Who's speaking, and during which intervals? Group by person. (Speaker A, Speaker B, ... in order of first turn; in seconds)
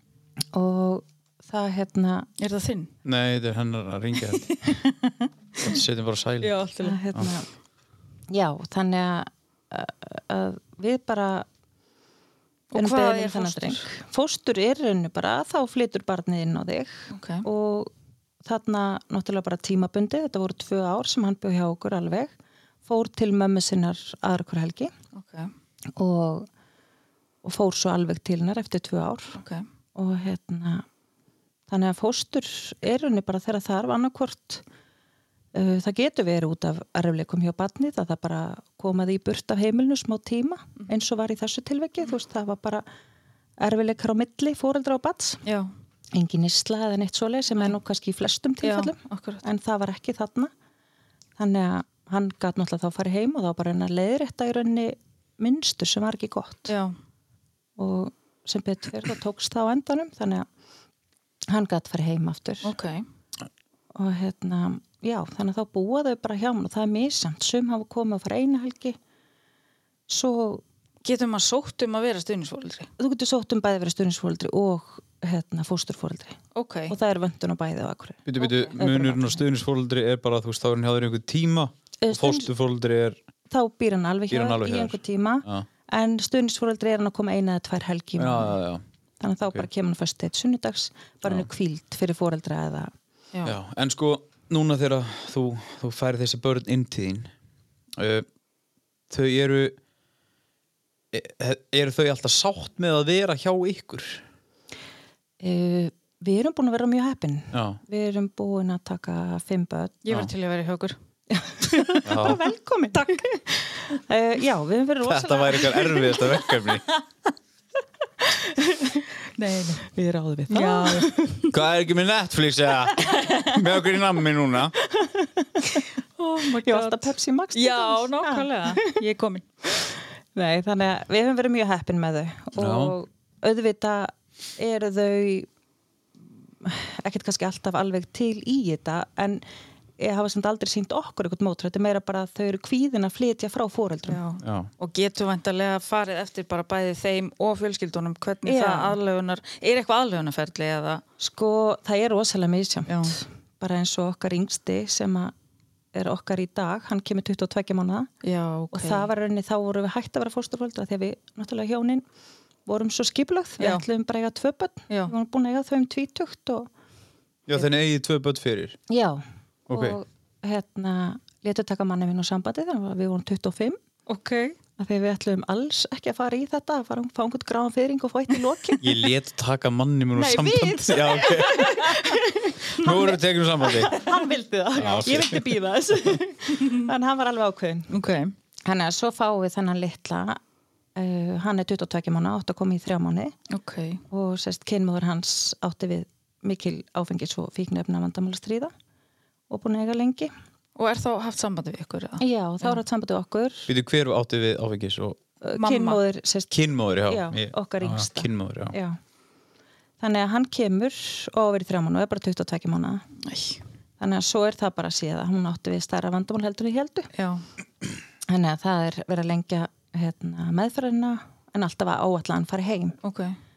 Speaker A: 0.5-2.3, 6.8-7.5, 8.3-11.5, 12.8-17.9, 18.4-22.3, 22.8-24.9, 25.9-26.5, 27.4-29.4, 29.9-30.8, 31.7-34.6, 35.5-42.9, 43.6-45.4, 46.1-50.5, 51.4-56.7, 57.8-60.5, 61.5-62.7, 63.9-69.0, 70.1-70.6, 73.0-76.4, 76.9-79.4, 82.0-82.5, 83.5-88.6, 89.2-92.9, 105.4-110.0, 111.3-116.4, 119.9-121.4, 124.9-125.9, 126.4-128.9, 130.3-135.5, 136.6-139.4, 140.0-144.2, 148.4-149.0, 151.2-155.3, 155.9-158.1, 158.7-162.0, 162.7-166.7, 168.9-173.8, 174.8-179.0, 180.1-187.9, 188.6-190.4, 190.9-193.3, 194.1-198.7, 199.5-200.3, 202.2-203.7, 205.4-209.0, 210.0-213.0, 214.0-217.1, 218.3-223.0
Speaker B: 2.4-2.9, 4.3-5.3, 6.4-7.0, 12.7-13.8, 17.1-17.4, 25.1-25.5, 29.4-29.6, 48.6-49.4, 56.7-56.9, 62.6-63.0, 71.0-72.9, 76.5-76.9, 78.4-78.8, 110.0-111.0, 111.7-112.4, 112.9-113.2, 119.3-119.9, 120.5-121.3, 123.0-123.6, 126.2-129.4, 144.1-151.0, 152.9-153.2, 158.2-159.1, 174.1-174.6, 181.5-181.9, 187.9-188.3, 193.5-194.0, 200.8-202.8, 205.6-206.0, 213.2-213.6, 217.1-217.4, 223.0-223.4
Speaker C: 3.0-4.4, 5.6-6.6, 78.2-83.2, 84.3-85.7, 88.2-88.8, 93.4-97.3, 97.9-98.2, 99.1-99.8, 101.1-104.2, 107.5-107.8, 112.0-112.4, 115.0-116.9, 121.5-124.7, 132.6-132.9, 144.4-144.7, 167.5-168.8, 169.7-170.0, 178.8-181.9, 182.7-183.9, 184.8-185.5, 203.7-205.2, 206.5-208.7